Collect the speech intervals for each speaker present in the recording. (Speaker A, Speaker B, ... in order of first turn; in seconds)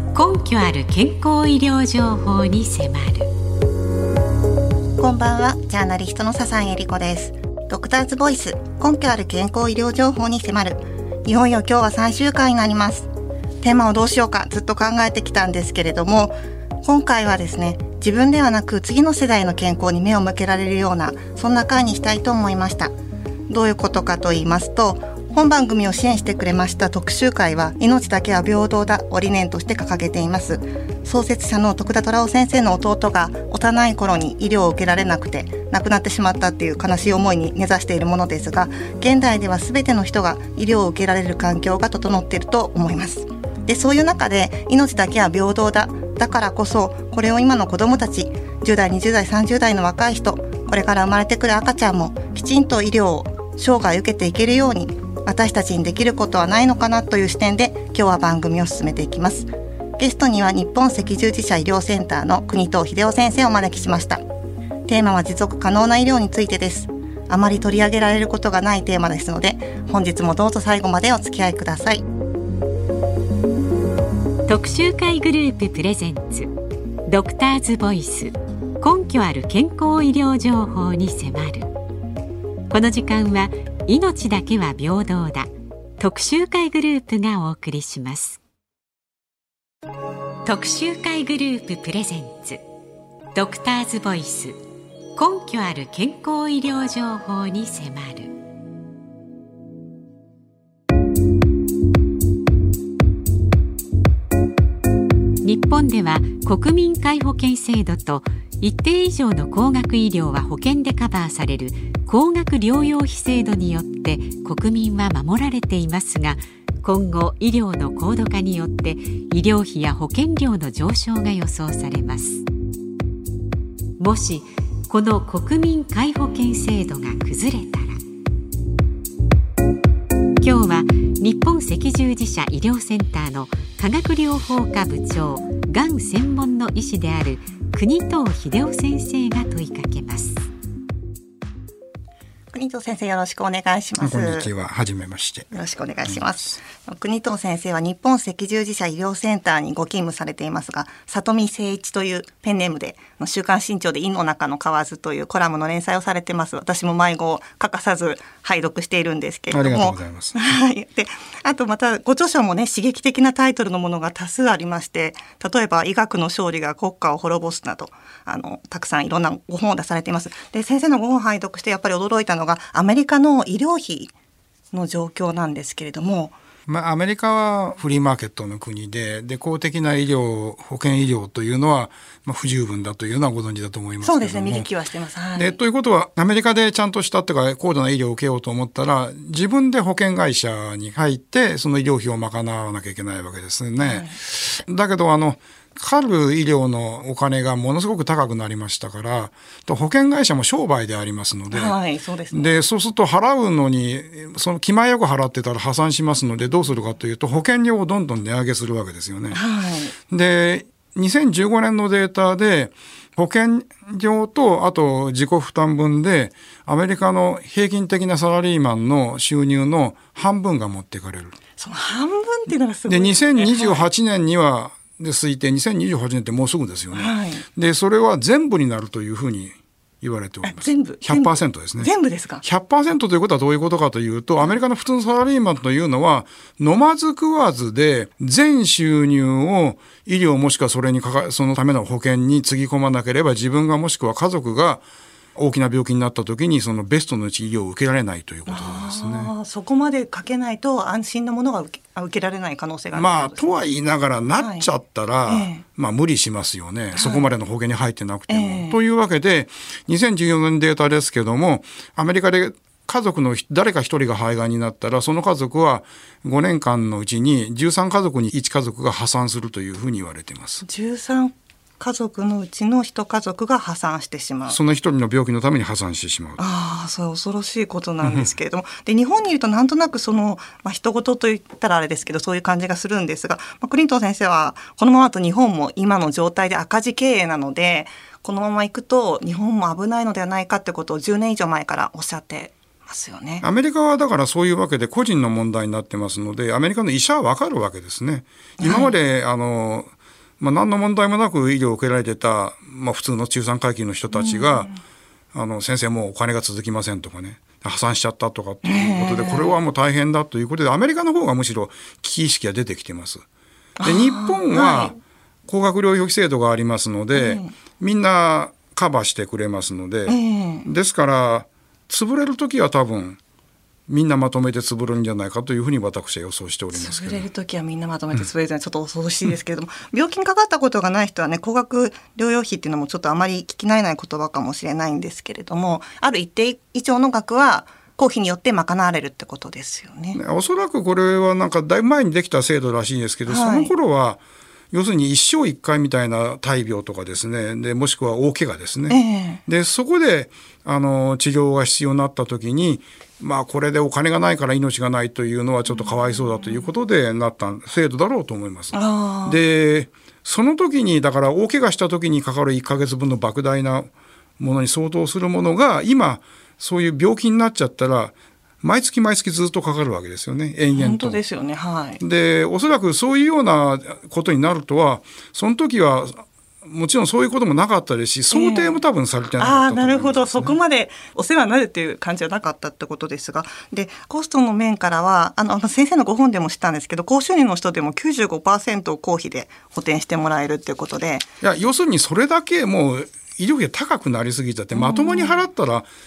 Speaker A: 0.1-3.3, 74.5-76.5, 77.1-81.7, 82.7-88.4, 90.4-92.6, 93.3-94.6, 95.2-98.3, 105.4-122.4, 124.0-128.0, 130.4-140.4
Speaker B: 5.0-13.1, 13.6-22.9, 23.5-64.2, 64.8-72.0, 142.5-144.5, 145.5-174.1, 174.7-176.3, 184.0-185.6, 193.8-194.2, 201.5-202.6, 209.3-209.9, 221.6-223.8, 226.9-227.4, 230.4-232.4, 248.5-253.6, 254.4-254.7, 255.2-255.6, 256.9-257.3, 258.3-258.8, 270.6-274.6, 276.4-293.4, 298.6-298.9, 304.1-304.8, 308.6-309.6, 313.8-314.9, 317.1-317.5, 320.1-320.7, 326.7-340.2, 343.3-343.7, 348.9-349.4, 358.7-359.4, 370.7-372.0, 378.3-378.8, 379.4-391.2, 394.7-395.4
Speaker C: 144.0-145.5, 159.5-160.4, 176.7-184.7, 185.3-201.8, 202.3-209.4, 210.1-221.4, 222.9-244.8, 245.3-249.3, 252.9-270.6, 274.5-276.5, 293.4-304.7, 305.3-313.2, 313.8-323.2, 323.9-327.3, 340.1-344.2, 344.7-371.2, 372.0-380.6, 391.4-395.9